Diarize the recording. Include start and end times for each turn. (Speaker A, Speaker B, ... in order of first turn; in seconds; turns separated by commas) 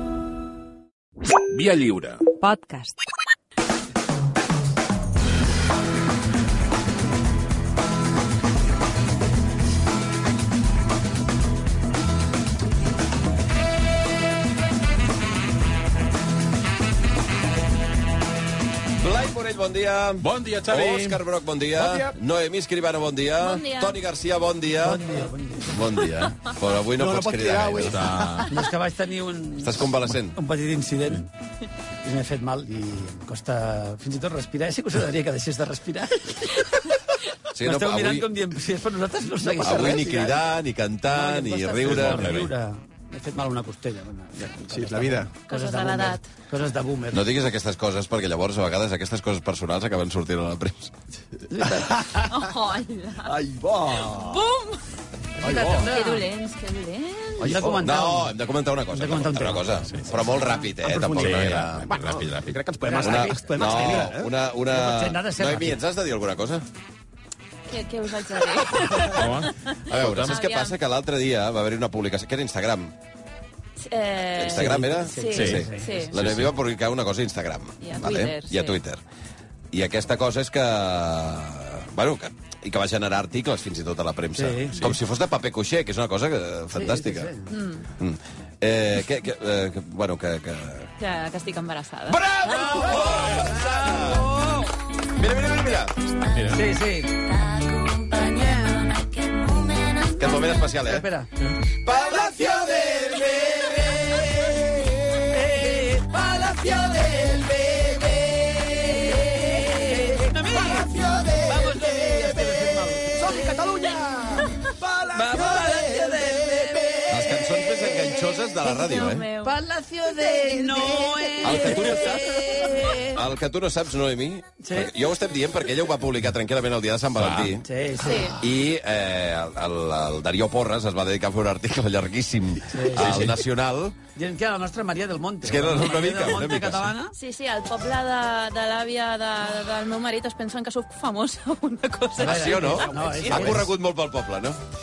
Speaker A: 1.4-2.3, Speaker B: 19.0-28.1, Speaker A: 20.2-21.2, Speaker C: 21.8-22.1, Speaker D: 23.4-24.0, Speaker E: 24.8-25.8, Speaker C: 26.9-28.5, Speaker A: 27.8-28.5, Speaker E: 28.5-31.3, Speaker B: 29.6-30.4, Speaker E: 32.0-36.7, Speaker B: 37.5-38.3, Speaker E: 37.6-40.4, Speaker B: 39.6-42.4, Speaker E: 41.1-47.2, Speaker A: 41.9-42.5, Speaker C: 44.6-45.3, Speaker D: 45.5-46.3, Speaker B: 47.1-51.0, Speaker E: 51.5-52.0, Speaker C: 51.9-52.3, Speaker D: 52.3-53.4, Speaker C: 53.2-54.5, Speaker D: 54.1-54.8, Speaker E: 55.4-56.3, Speaker C: 55.4-55.9, Speaker D: 55.8-57.7, Speaker E: 57.4-58.4, Speaker C: 57.4-57.8, Speaker B: 57.6-61.9, Speaker E: 58.9-60.7, Speaker C: 60.8-64.3, Speaker A: 61.2-62.6, Speaker E: 62.8-64.1, Speaker B: 63.0-66.7, Speaker E: 64.7-65.8, Speaker D: 67.7-70.8, Speaker A: 69.0-70.3, Speaker B: 69.8-72.9, Speaker D: 73.8-76.2, Speaker B: 74.3-79.0, Speaker E: 74.6-75.9, Speaker A: 75.3-76.5, Speaker D: 77.8-78.8, Speaker B: 79.7-87.3, Speaker E: 84.3-84.8, Speaker E: 86.7-87.5, Speaker D: 87.5-87.9, Speaker B: 88.0-90.9, Speaker D: 91.0-92.8, Speaker B: 92.1-94.3, Speaker E: 92.7-94.7, Speaker B: 95.1-96.0, Speaker A: 96.3-96.7, Speaker E: 96.5-97.4, Speaker D: 97.6-98.0, Speaker E: 98.0-98.9, Speaker D: 98.5-99.8, Speaker B: 100.0-101.1, Speaker E: 100.8-101.3, Speaker B: 101.7-105.5, Speaker E: 105.3-107.5, Speaker B: 106.6-109.5, Speaker E: 109.0-113.7, Speaker C: 110.6-117.2, Speaker E: 115.1-117.9, Speaker B: 117.1-119.3, Speaker D: 118.6-119.6, Speaker E: 119.4-123.2, Speaker D: 120.2-121.3, Speaker C: 120.7-121.1, Speaker B: 121.4-127.6, Speaker E: 124.6-124.9, Speaker A: 127.2-127.6, Speaker E: 127.6-128.3, Speaker D: 128.0-128.4, Speaker B: 128.3-134.0, Speaker E: 132.7-133.0, Speaker A: 133.0-133.4, Speaker E: 134.2-137.1, Speaker B: 135.4-136.9, Speaker D: 137.2-142.9, Speaker B: 142.2-144.6, Speaker E: 142.2-143.7, Speaker C: 142.7-143.6